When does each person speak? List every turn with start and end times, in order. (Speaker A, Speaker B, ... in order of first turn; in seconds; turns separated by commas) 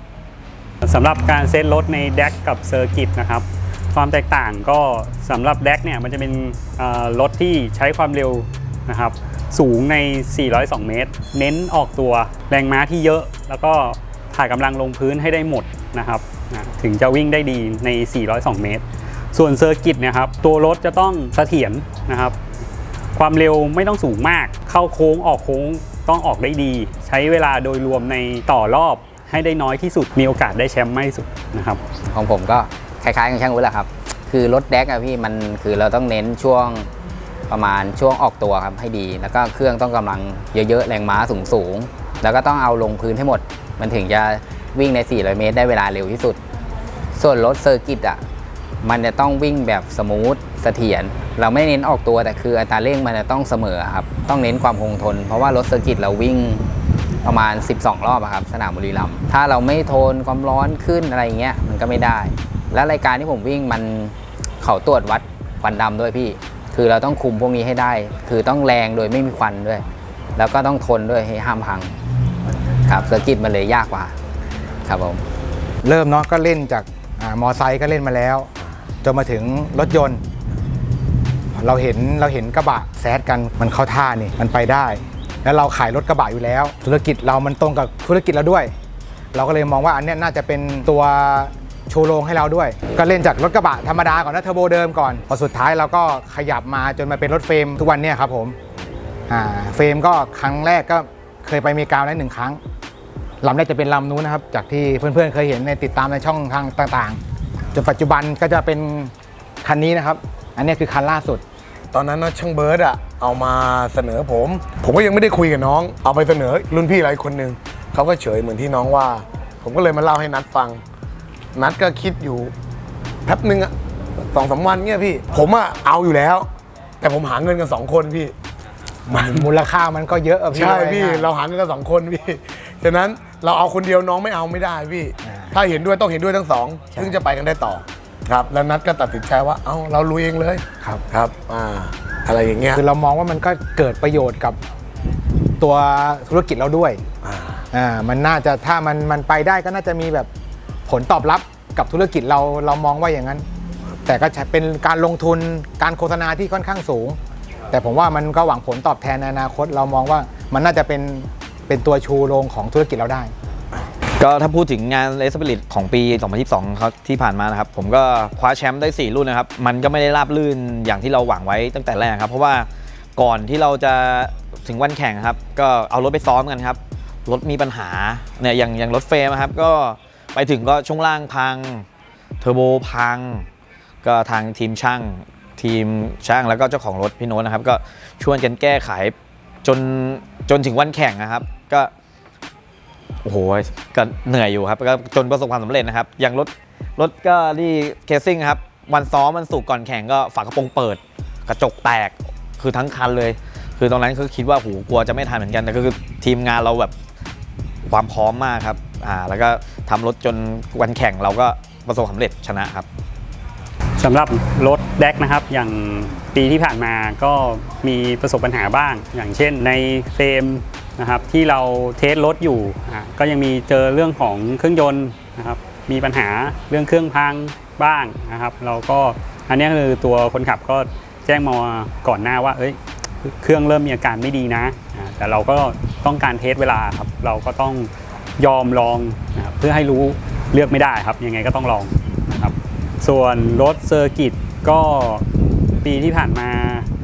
Speaker A: 0.8-22.4, Speaker A: 23.2-31.8, Speaker B: 32.1-36.9, Speaker B: 37.5-46.4, Speaker B: 47.1-48.2, Speaker B: 48.8-56.6, Speaker B: 57.2-69.8, Speaker B: 70.3-72.0, Speaker B: 72.8-74.2, Speaker B: 74.8-75.2, Speaker C: 75.8-78.5, Speaker C: 79.0-80.2, Speaker C: 81.5-88.7, Speaker C: 89.3-98.6, Speaker C: 99.3-102.6, Speaker C: 103.4-107.2, Speaker C: 107.7-109.1, Speaker C: 109.6-111.4, Speaker D: 111.9-120.8, Speaker D: 121.5-122.5, Speaker D: 123.2-126.5, Speaker D: 127.0-128.3, Speaker C: 129.1-131.3, Speaker D: 129.1-129.5, Speaker D: 130.5-142.8, Speaker C: 135.2-135.5, Speaker C: 142.7-144.6, Speaker C: 145.6-147.0, Speaker D: 147.2-147.7, Speaker C: 147.7-150.3, Speaker C: 150.9-153.4, Speaker C: 154.1-157.2, Speaker C: 157.7-163.3, Speaker E: 164.2-181.8, Speaker E: 182.4-183.5, Speaker E: 184.0-191.9, Speaker E: 193.2-206.9, Speaker E: 207.8-212.8, Speaker A: 214.0-245.2, Speaker A: 245.8-246.9